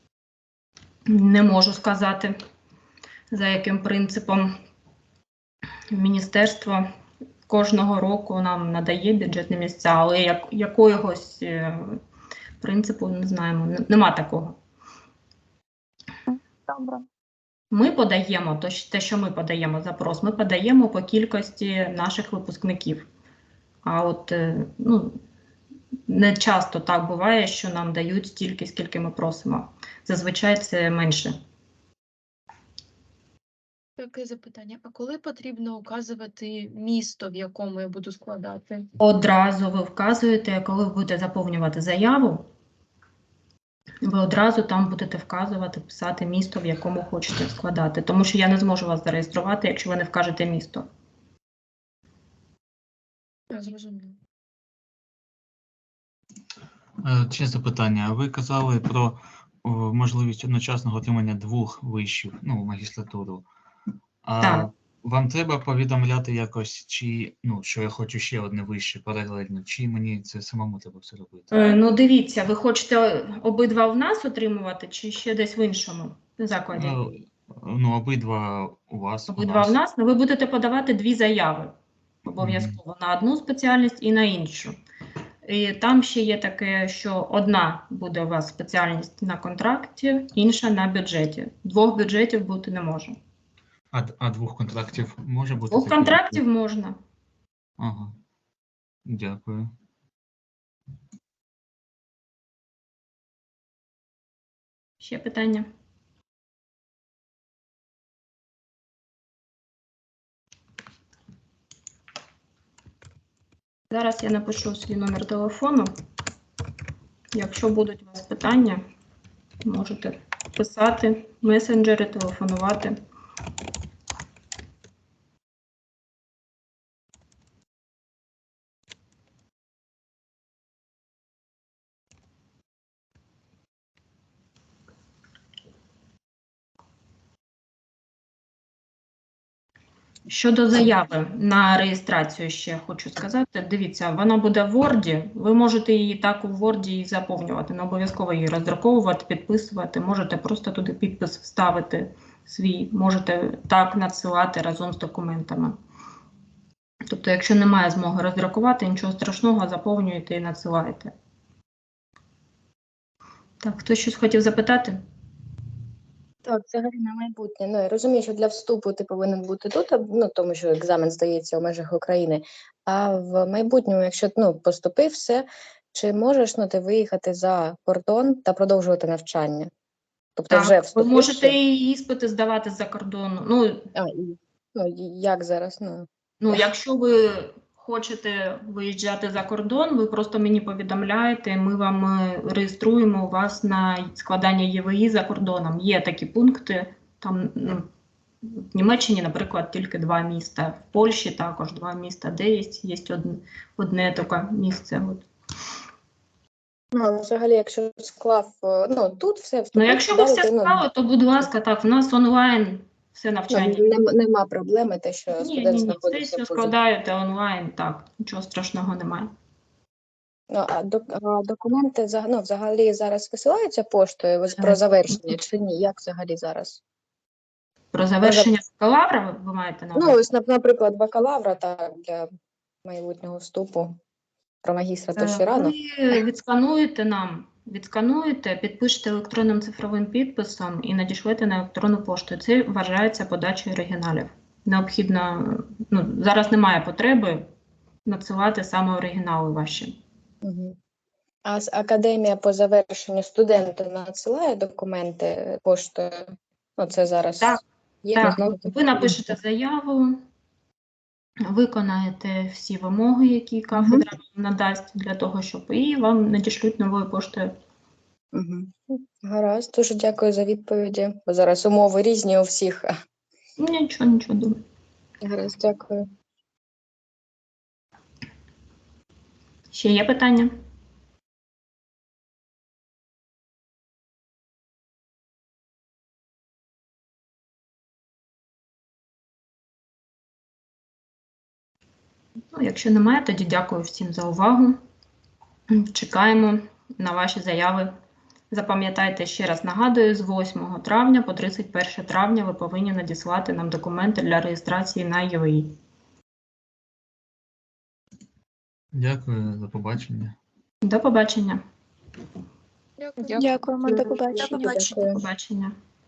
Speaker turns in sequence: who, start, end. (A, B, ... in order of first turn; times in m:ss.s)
0:01.1-0:02.4 A
0:03.3-0:04.5 A
0:05.9-0:06.9 A
0:07.5-0:12.0 A
0:12.6-0:14.6 A
0:16.3-0:17.0 B
0:17.7-0:23.1 A
0:23.8-0:25.2 A
0:26.1-0:31.4 A
0:34.0-0:38.9 C
0:39.0-0:42.5 A
0:44.0-0:50.9 A
0:53.5-0:54.2 C
0:57.0-1:03.4 D
1:04.2-1:11.8 D
1:04.4-1:04.7 A
1:11.5-1:17.0 A
1:16.7-1:19.7 D
1:19.3-1:21.7 A
1:22.3-1:24.8 A
1:22.4-1:22.8 D
1:25.5-1:33.2 A
1:33.9-1:36.4 D
1:35.7-1:37.0 A
1:37.8-1:38.2 D
1:39.1-1:39.7 D
1:45.0-1:45.7 A
1:53.9-1:55.9 A
1:57.3-1:58.8 A
1:59.6-2:03.0 A
2:20.3-2:35.8 A
2:37.1-2:41.1 A
2:43.6-2:45.0 A
2:46.4-2:59.7 E
3:00.4-3:01.6 E
3:00.5-3:03.9 A
3:04.0-3:06.6 E
3:06.4-3:17.9 A
3:18.4-3:25.3 A
3:26.9-3:30.8 E
3:29.8-3:33.9 A
3:33.5-3:36.7 E
3:35.4-3:39.3 A
3:40.5-3:46.8 E
3:47.9-3:50.2 A
3:48.2-3:48.5 E
3:50.0-3:52.3 E
3:52.8-3:54.0 E
3:54.6-3:55.8 E
3:55.1-4:07.5 A
4:08.1-4:10.0 A
4:10.4-4:10.8 E
4:11.4-4:19.3 E
4:18.1-4:20.2 A
4:21.5-4:27.5 A
4:23.8-4:24.1 E
4:28.3-4:33.0 E
4:33.6-4:34.6 A
4:35.2-4:36.1 E
4:39.7-4:40.5 A
4:52.5-4:54.8 A
4:55.7-4:57.9 A
4:58.5-5:05.8 A
5:08.9-5:10.4 D
5:10.8-5:11.6 A
5:13.0-5:13.6 C
5:13.2-5:14.9 B
5:13.8-5:15.2 E
5:14.4-5:15.8 A